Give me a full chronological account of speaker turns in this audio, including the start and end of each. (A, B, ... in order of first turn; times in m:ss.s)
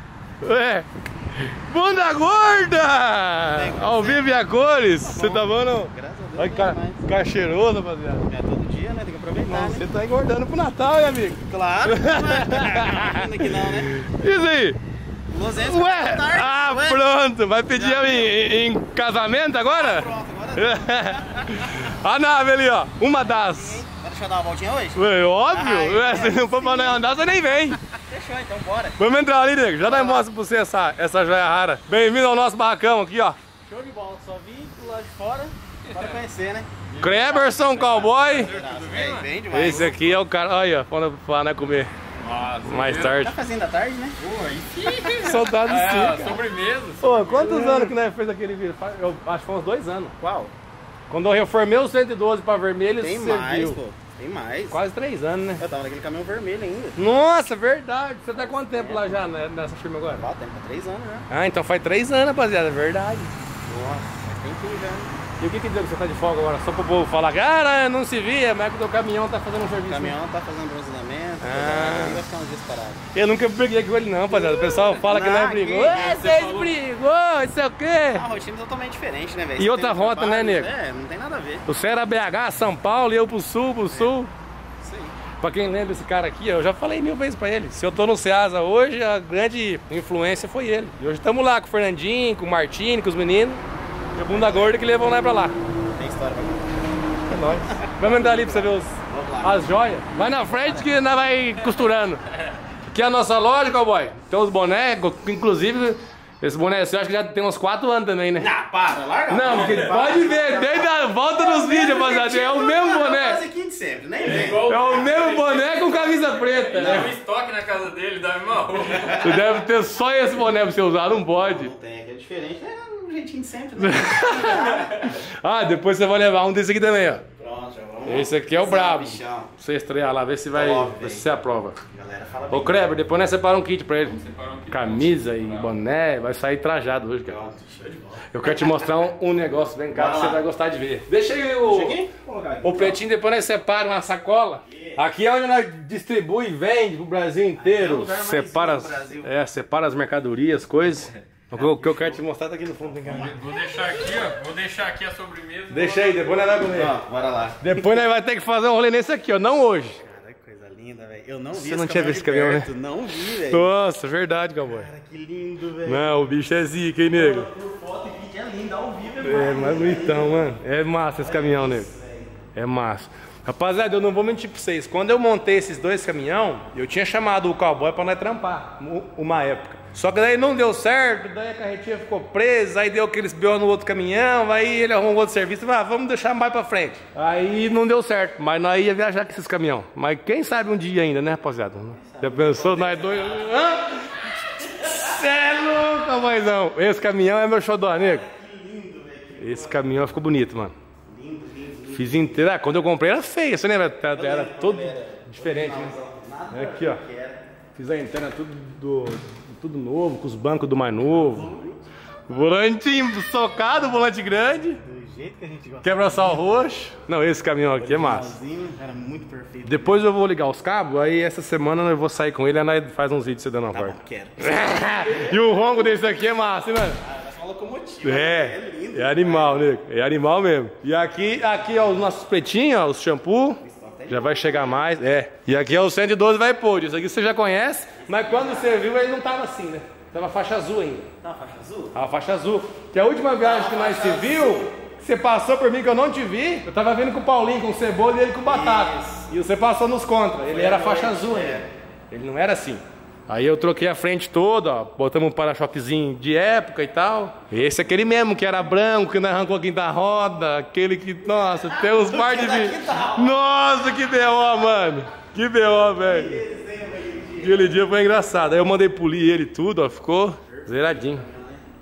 0:00.4-0:08.3 A
0:03.5-0:04.3 B
0:05.0-0:07.1 B
0:08.2-0:09.8 B
0:09.4-0:14.8 A
0:11.5-0:13.9 B
0:15.3-0:17.0 B
0:15.6-0:23.8 A
0:17.7-0:18.4 B
0:19.6-0:21.6 B
0:23.2-0:27.0 B
0:25.0-0:27.8 A
0:28.0-0:29.0 B
0:29.0-0:33.4 A
0:29.8-0:30.3 B
0:33.7-0:40.0 B
0:35.9-0:36.2 C
0:36.9-0:37.2 C
0:37.0-0:38.5 A
0:38.1-0:39.9 C
0:39.5-0:41.9 A
0:42.2-0:43.2 C
0:42.6-0:43.3 A
0:43.2-0:44.2 B
0:44.2-0:47.8 C
0:45.2-0:46.3 A
0:47.0-0:50.1 A
0:47.5-0:47.9 B
0:50.2-0:50.5 B
0:51.1-0:53.8 A
0:53.0-0:54.8 B
0:54.7-0:55.6 A
0:55.6-0:57.0 B
0:57.0-1:00.2 A
0:58.4-0:59.1 B
1:00.2-1:01.3 B
1:01.3-1:04.0 A
1:04.1-1:05.2 B
1:05.4-1:10.2 A
1:09.8-1:13.0 B
1:11.4-1:12.2 A
1:13.1-1:18.2 A
1:14.3-1:16.2 B
1:16.0-1:16.7 C
1:18.1-1:21.7 B
1:19.6-1:20.7 A
1:21.7-1:24.3 A
1:24.8-1:25.2 B
1:25.4-1:33.6 A
1:34.2-1:35.6 A
1:34.3-1:34.8 B
1:35.9-1:39.6 B
1:37.3-1:42.2 A
1:40.2-1:40.9 B
1:42.9-1:48.5 A
1:48.4-1:55.0 B
1:49.3-1:53.4 A
1:49.4-1:49.9 C
1:54.2-1:59.4 C
1:54.5-1:57.1 A
1:56.8-1:57.1 B
1:59.0-1:59.4 B
1:59.1-2:01.7 A
2:01.0-2:05.1 B
2:03.8-2:07.2 A
2:07.4-2:09.5 B
2:08.1-2:11.8 A
2:10.5-2:11.3 B
2:11.9-2:12.9 B
2:12.5-2:14.2 A
2:14.0-2:15.8 C
2:14.7-2:17.4 A
2:17.3-2:18.3 B
2:18.3-2:22.0 A
2:19.9-2:20.4 B
2:21.6-2:23.0 B
2:22.6-2:33.4 A
2:24.7-2:25.0 B
2:27.6-2:29.3 B
2:31.5-2:32.2 B
2:33.0-2:33.3 B
2:33.1-2:36.5 C
2:35.7-2:37.0 A
2:36.7-2:37.7 B
2:37.6-2:40.0 A
2:40.0-2:43.7 B
2:41.6-2:42.7 A
2:43.4-2:44.9 A
2:44.6-2:46.3 B
2:45.9-2:47.5 A
2:47.1-2:50.6 B
2:49.2-2:51.9 A
2:51.2-2:52.4 B
2:52.5-3:18.2 A
3:12.0-3:13.8 B
3:18.0-3:19.9 B
3:19.4-3:20.8 A
3:21.0-3:22.3 B
3:21.9-3:25.9 A
3:24.1-3:27.4 B
3:26.5-3:27.0 A
3:27.8-3:31.5 A
3:31.2-3:31.8 B
3:32.3-3:34.8 A
3:34.8-3:36.6 B
3:35.8-3:38.3 A
3:37.8-3:40.0 B
3:39.6-3:47.0 A
3:43.7-3:45.3 B
3:47.0-3:49.7 B
3:48.0-4:01.1 A
3:53.6-3:54.9 B
3:58.0-3:58.8 B
4:01.2-4:02.0 B
4:01.9-4:26.4 A
4:03.4-4:04.7 B
4:08.4-4:09.2 B
4:10.4-4:11.7 B
4:21.8-4:23.4 B
4:26.0-4:27.8 B
4:27.4-4:31.2 A
4:30.5-4:31.6 B